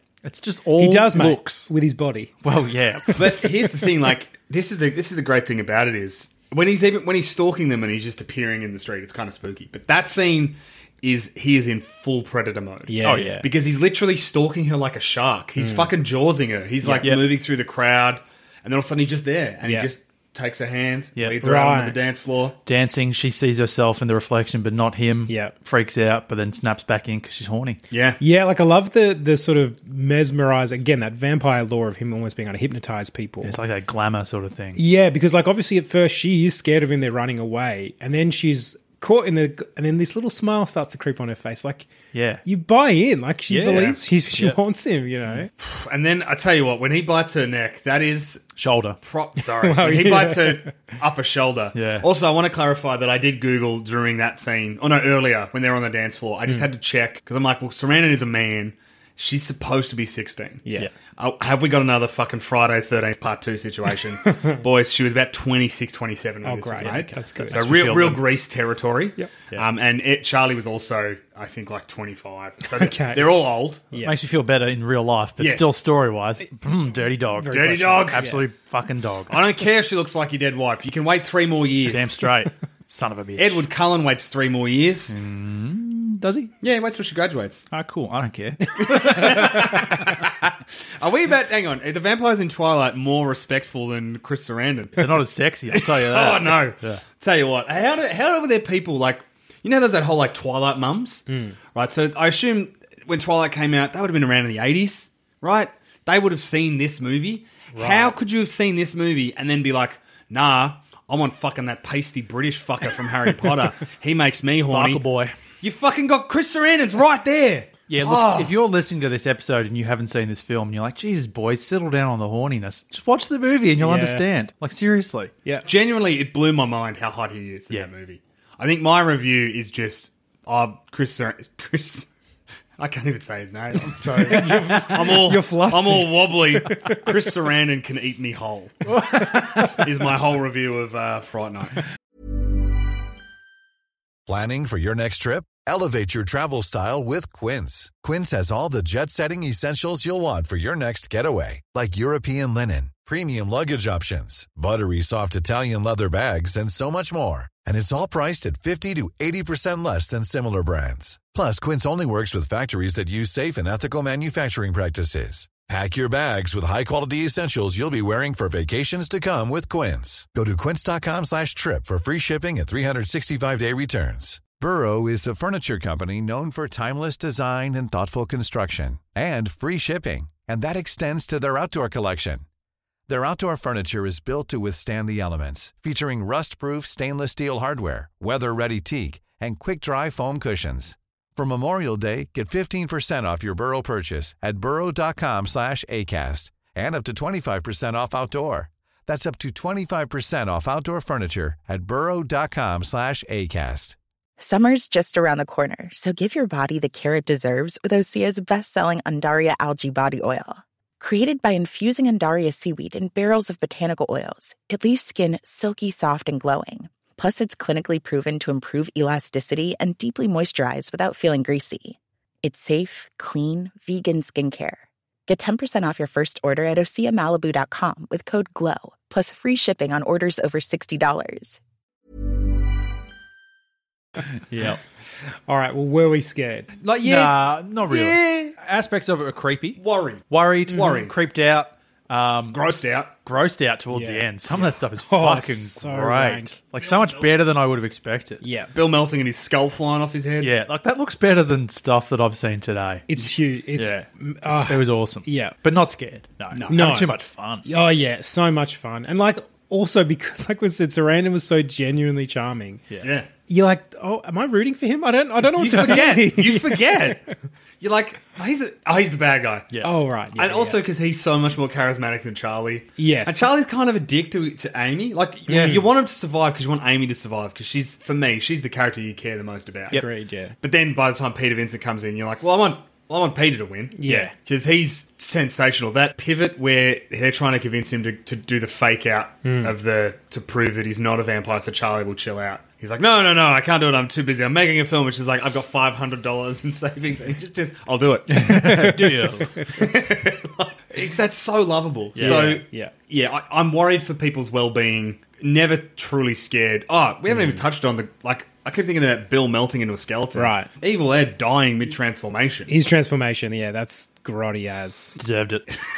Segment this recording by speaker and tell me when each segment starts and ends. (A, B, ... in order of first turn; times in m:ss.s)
0:00.2-0:01.7 A
0:00.8-0:02.3 B
0:02.4-0:03.5 A
0:03.0-0:03.8 B
0:03.2-0:22.6 C
0:12.9-0:13.4 B
0:13.0-0:13.4 A
0:15.6-0:15.9 B
0:16.8-0:17.1 B
0:17.0-0:17.2 A
0:19.6-0:19.9 B
0:21.4-0:22.0 B
0:22.6-0:27.8 A
0:25.3-0:25.5 B
0:27.9-0:28.2 C
0:28.2-0:33.6 B
0:33.4-0:34.8 A
0:34.8-0:41.9 B
0:42.1-0:42.4 A
0:42.4-0:45.5 B
0:43.5-0:44.6 A
0:45.6-0:48.5 C
0:48.6-0:49.0 A
0:49.0-1:13.9 C
0:49.6-0:50.7 B
0:51.7-0:52.0 A
1:04.3-1:04.6 B
1:06.4-1:07.7 B
1:06.8-1:08.2 A
1:12.7-1:14.1 B
1:14.0-1:19.4 A
1:15.4-1:15.7 C
1:17.3-1:18.4 B
1:17.5-1:18.3 C
1:19.3-1:22.2 C
1:21.8-1:23.6 A
1:23.4-1:25.1 C
1:25.1-1:26.5 A
1:26.6-1:27.7 C
1:27.7-1:30.0 A
1:28.8-1:30.3 C
1:28.8-1:29.1 B
1:31.0-1:55.0 C
1:35.0-1:37.0 A
1:41.3-1:41.6 B
1:47.8-1:48.1 A
1:54.6-1:55.4 A
1:55.6-1:58.5 C
1:57.9-2:05.3 A
2:03.8-2:04.2 B
2:05.6-2:12.1 C
2:12.8-2:18.9 C
2:14.2-2:17.1 B
2:18.9-2:19.7 A
2:19.6-2:21.8 C
2:24.2-3:02.4 D
3:03.1-3:24.0 D
3:24.4-3:51.6 E
3:54.5-3:54.8 A
3:55.5-3:56.7 B
3:56.8-3:58.5 C
3:57.0-4:02.6 A
3:59.8-4:01.2 C
4:02.5-4:03.1 C
4:03.2-4:08.4 A
4:03.9-4:04.3 B
4:05.0-4:06.6 B
4:06.8-4:07.2 C
4:08.4-4:08.7 B
4:08.7-4:10.5 C
4:10.4-4:13.1 A
4:13.1-4:15.5 B
4:13.8-4:17.6 A
4:16.7-4:17.1 B
4:17.6-4:22.8 B
4:23.0-4:23.3 C
4:23.5-4:27.3 B
4:25.6-4:27.2 C
4:27.8-4:29.7 C
4:29.8-4:30.8 B
4:30.4-4:40.0 C
4:33.0-4:33.5 B
4:35.5-4:35.8 B
4:35.5-4:35.8 A
4:39.9-4:40.5 B
4:40.6-4:58.5 C
4:44.0-4:44.3 B
4:49.4-4:49.7 B
4:58.3-4:59.6 A
4:58.5-4:59.7 B
4:59.6-5:12.7 C
5:02.2-5:02.6 A
5:02.2-5:02.9 B
5:10.4-5:10.7 B
5:12.7-5:15.2 B
5:15.2-5:15.6 A